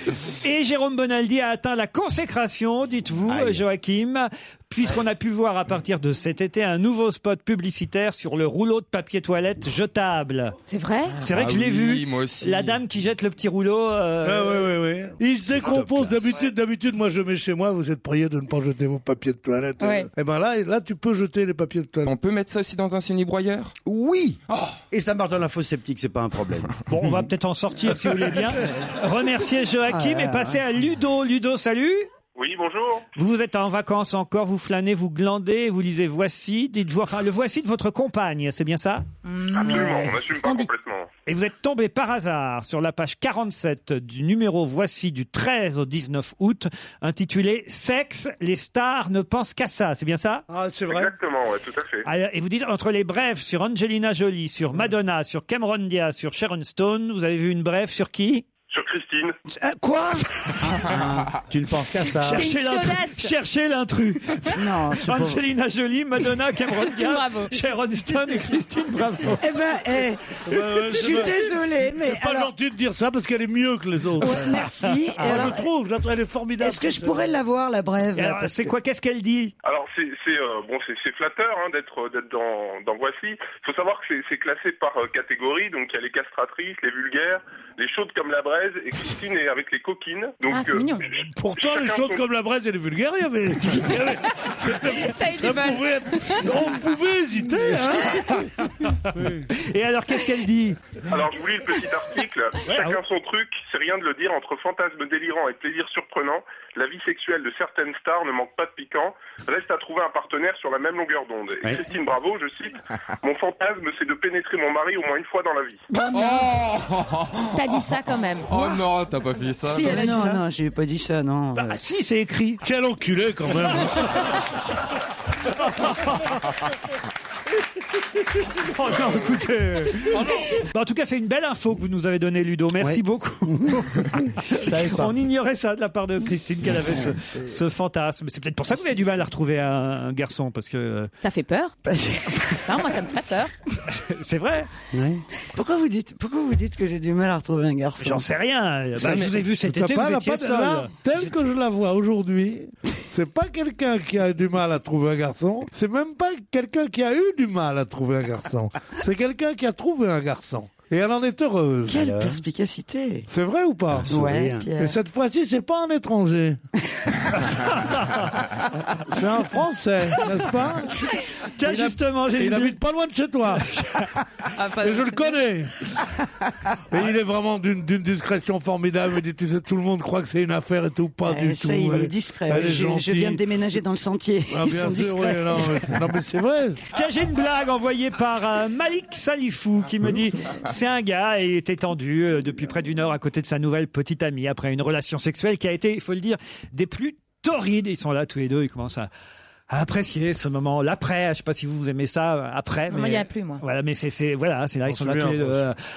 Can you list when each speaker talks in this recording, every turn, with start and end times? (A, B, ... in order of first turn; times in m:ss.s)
0:00.3-0:10.6 A
0:03.3-0:03.6 B
0:10.7-0:11.2 C
0:11.2-0:12.8 D
0:11.2-0:14.7 A
0:14.2-0:22.1 E
0:15.5-0:16.4 B
0:19.8-0:20.1 C
0:22.0-0:23.8 D
0:23.9-0:27.2 B
0:26.9-0:32.1 A
0:30.0-0:30.6 F
0:32.4-0:33.1 G
0:33.2-0:39.1 A
0:39.2-0:40.7 C
0:39.5-0:41.1 G
0:39.6-0:40.3 F
0:41.3-0:50.4 A
0:50.5-0:51.2 E
0:50.9-0:52.1 G
0:52.0-0:58.4 A
0:58.7-0:59.4 G
0:59.5-1:01.0 F
1:00.6-1:02.5 B
1:02.0-1:09.4 A
1:02.3-1:03.3 C
1:04.5-1:05.4 F
1:06.8-1:07.6 C
1:09.4-1:12.5 F
1:10.5-1:14.6 E
1:14.2-1:15.7 F
1:14.3-1:15.5 A
1:15.2-1:17.3 E
1:16.6-1:18.7 F
1:18.2-1:19.5 A
1:19.6-1:32.2 G
1:30.5-1:31.1 C
1:31.2-1:38.4 E
1:34.3-1:36.5 C
1:38.0-1:40.8 A
1:39.1-1:39.5 E
1:41.1-1:55.8 G
1:42.7-1:43.0 A
1:55.9-1:56.6 C
1:56.1-1:57.8 D
1:57.5-1:58.5 C
1:58.5-2:00.0 D
1:59.7-2:00.4 C
1:59.8-2:01.8 F
1:59.9-2:00.4 A
2:01.5-2:02.6 A
2:02.6-2:04.2 E
2:05.6-2:06.4 A
2:08.6-2:21.1 A
2:10.1-2:10.6 E
2:12.8-2:15.2 B
2:16.9-2:17.6 F
2:18.7-2:19.1 F
2:21.2-2:21.8 C
2:21.8-2:23.0 F
2:22.6-2:23.5 C
2:23.9-2:24.7 A
2:24.9-2:25.2 B
2:25.5-2:28.3 F
2:28.0-2:30.9 A
2:29.0-2:29.3 D
2:29.6-2:42.1 E
2:41.9-2:43.3 F
2:41.9-2:42.4 B
2:43.3-2:46.6 E
2:43.9-2:44.7 B
2:44.1-2:45.0 F
2:47.5-2:48.3 A
2:49.0-2:53.7 E
2:51.5-2:52.8 A
2:53.6-2:54.1 A
2:54.5-2:55.5 C
2:54.8-2:55.7 E
2:56.9-3:03.4 E
3:01.2-3:06.2 F
3:04.5-3:06.8 E
3:06.9-3:19.1 A
3:19.7-3:25.8 A
3:22.9-3:23.6 C
3:24.8-3:25.6 E